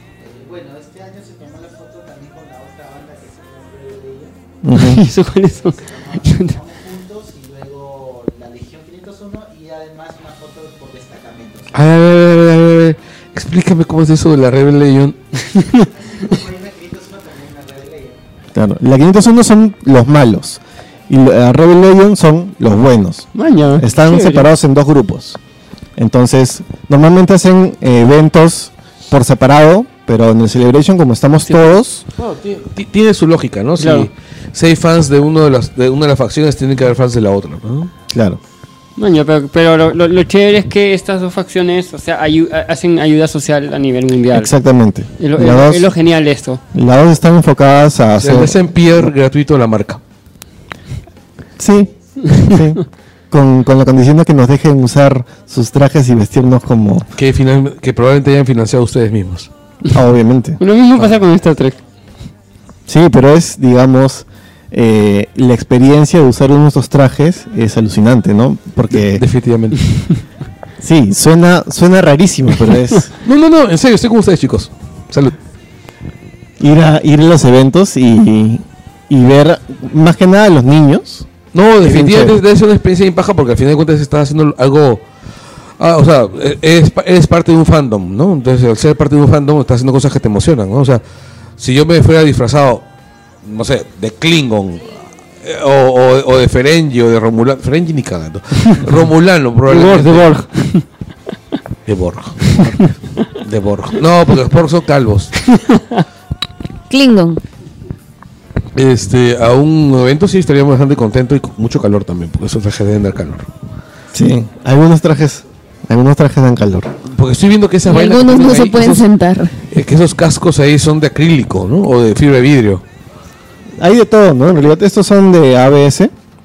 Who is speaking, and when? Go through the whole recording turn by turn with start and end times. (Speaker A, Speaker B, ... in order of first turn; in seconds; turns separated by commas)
Speaker A: 0.2-4.4, Speaker B: 4.6-5.0, Speaker C: 4.7-6.6, Speaker A: 5.2-11.8, Speaker D: 11.7-15.2, Speaker C: 15.6-15.9, Speaker A: 15.7-18.2, Speaker B: 18.6-25.4, Speaker C: 23.4-24.5, Speaker B: 26.0-32.0, Speaker D: 32.2-37.9, Speaker C: 33.8-34.1, Speaker B: 38.1-38.4, Speaker C: 39.0-44.5, Speaker B: 44.3-45.9, Speaker C: 45.2-46.6, Speaker B: 46.7-49.1, Speaker D: 48.2-50.0, Speaker B: 51.6-52.8, Speaker C: 52.3-52.6, Speaker B: 53.3-57.1, Speaker D: 57.2-59.5, Speaker B: 59.9-60.6, Speaker C: 60.6-61.8, Speaker B: 62.9-69.2, Speaker D: 68.9-69.9, Speaker B: 70.8-73.1, Speaker D: 73.2-75.4, Speaker B: 76.6-81.3, Speaker D: 81.5-85.0, Speaker B: 81.8-82.4, Speaker D: 85.8-91.0, Speaker D: 91.6-92.9, Speaker D: 93.4-100.4, Speaker C: 99.7-100.8, Speaker D: 101.9-102.8, Speaker C: 102.5-102.9, Speaker D: 103.4-105.4, Speaker C: 105.5-106.0, Speaker E: 106.9-107.4, Speaker D: 108.8-113.5, Speaker B: 114.1-116.9, Speaker D: 117.0-119.1, Speaker E: 117.8-119.6, Speaker D: 119.7-122.8, Speaker B: 123.8-126.1